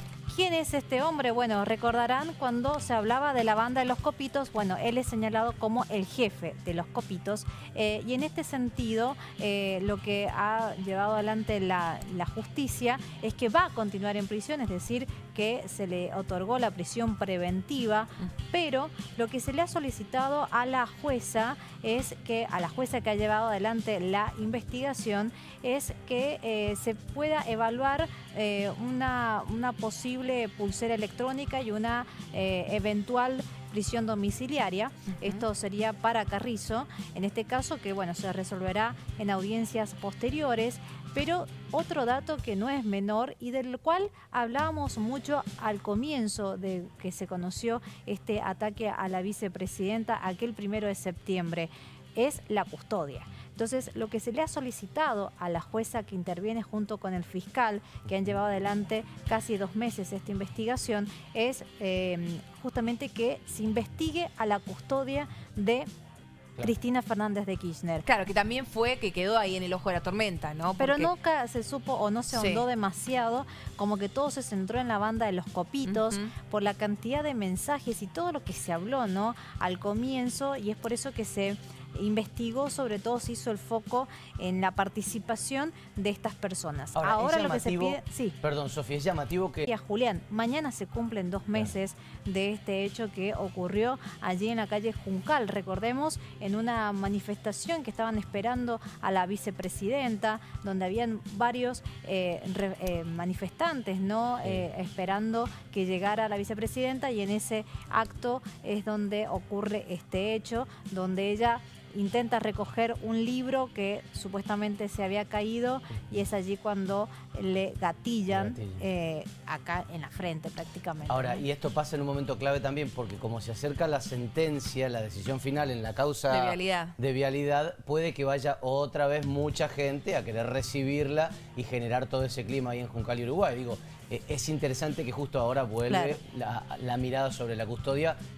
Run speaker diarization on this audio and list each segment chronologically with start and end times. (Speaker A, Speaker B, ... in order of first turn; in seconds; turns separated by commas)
Speaker A: 0.3-65.9, Speaker A: 66.6-68.0, Speaker B: 68.0-71.1, Speaker A: 70.8-88.4, Speaker B: 72.3-72.6, Speaker B: 75.8-76.3, Speaker C: 87.0-89.7, Speaker A: 89.7-121.4, Speaker C: 118.3-118.8, Speaker C: 121.1-138.2, Speaker B: 126.3-127.0, Speaker A: 135.9-136.2